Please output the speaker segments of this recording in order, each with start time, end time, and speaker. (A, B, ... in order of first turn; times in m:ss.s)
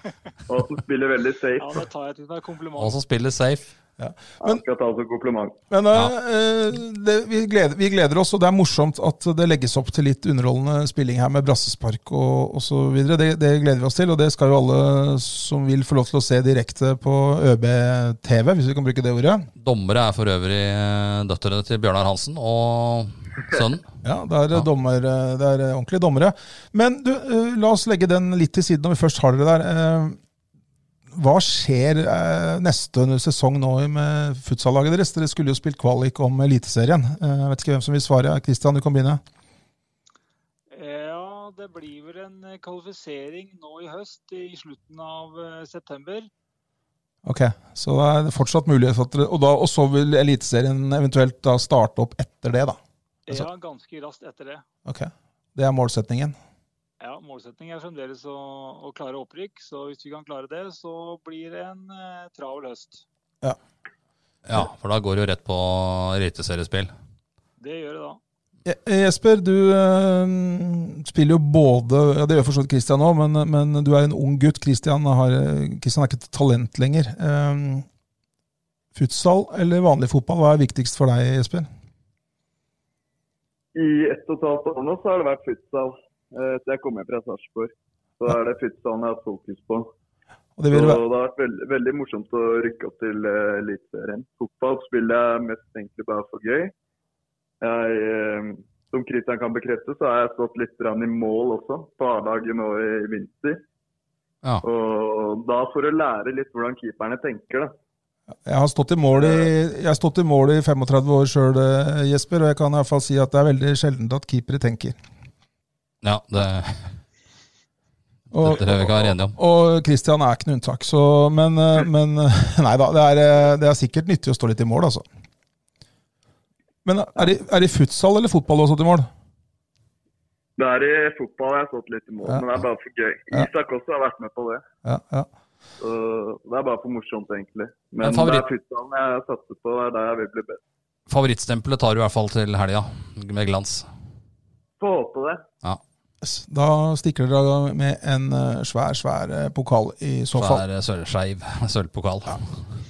0:00.5-0:01.9 A
0:01.6-0:03.0 B
0:02.8-0:03.7 C
0:04.0-0:04.6 D
0:04.4-0:05.6 A
0:05.7-0:19.5 D
0:19.6-0:23.9 C
0:24.0-0:30.2 D
0:31.1-0:39.2 D
0:40.7-0:46.3 B
0:47.2-0:52.8 D
0:53.3-0:54.6 B
0:54.9-0:56.4 D
0:57.0-1:03.0 B
1:04.4-1:06.9 C
1:07.6-1:08.2 B
1:08.6-1:17.9 D
1:19.0-1:21.7 D
1:23.8-1:29.9 A
1:30.6-1:31.0 D
1:30.7-1:36.7 A
1:37.6-1:43.6 A
1:44.6-1:47.7 A
1:48.4-1:55.0 D
1:49.2-1:49.5 A
1:56.0-1:57.0 C
1:58.3-2:05.0 D
1:58.3-1:59.4 C
2:06.8-2:09.1 D
2:10.6-2:14.6 A
2:14.8-2:15.3 D
2:15.8-2:20.6 A
2:18.0-2:18.5 C
2:21.1-2:23.9 C
2:24.8-2:25.4 A
2:26.2-2:30.6 D
2:30.4-2:32.5 C